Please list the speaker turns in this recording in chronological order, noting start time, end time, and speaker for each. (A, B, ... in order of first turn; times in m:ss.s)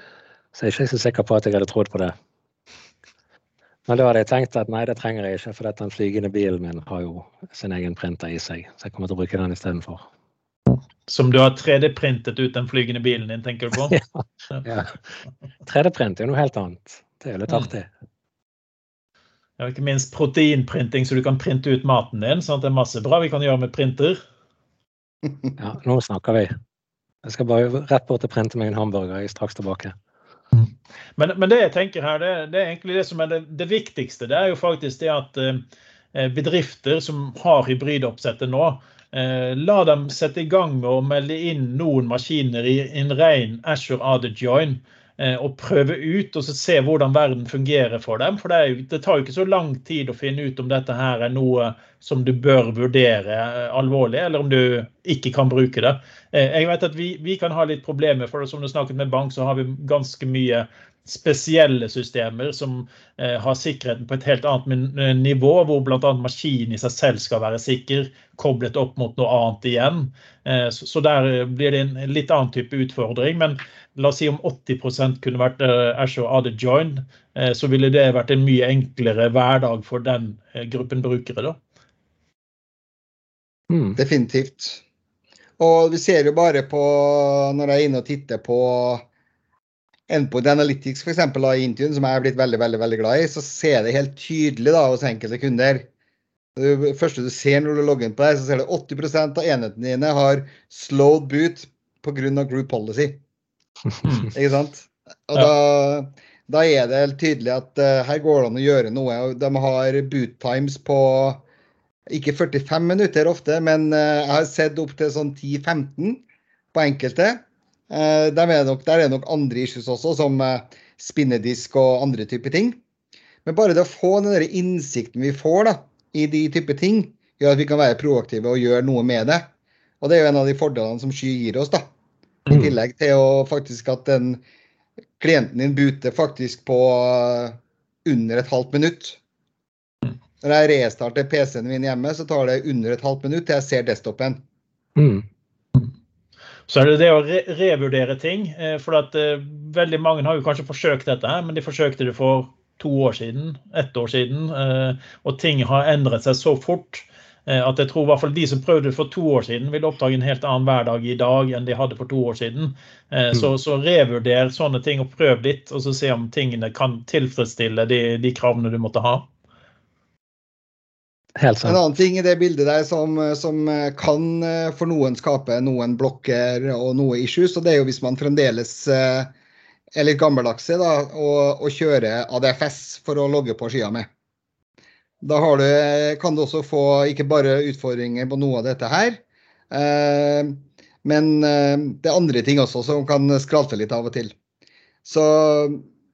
0:00.5-0:02.1 A
0:03.9-0:10.1 A
0:10.7-0:13.9 B
0:13.7-0:17.9 A
0:19.6-0:24.2 B
0:25.6-0:26.5 A
0:27.2-0:29.9 A
0:30.5-0:35.6 B
0:36.1-1:21.6 B
1:23.7-1:24.0 A
1:24.0-1:24.8 C
1:25.6-1:29.0 C
1:30.1-1:35.9 C
1:36.6-1:43.2 C
1:44.0-1:44.3 B
1:44.3-1:51.4 C
1:52.1-1:56.2 C
1:56.7-2:02.8 C
2:03.4-2:09.4 C
2:10.0-2:11.8 C
2:12.5-2:14.4 C
2:15.2-2:19.2 C
2:20.4-2:24.4 C
2:25.0-2:25.2 A
2:26.7-2:49.3 B
2:51.4-2:51.8 A
2:51.6-2:59.3 C
2:59.9-3:04.1 C
3:05.2-3:14.3 C
3:15.0-3:15.8 C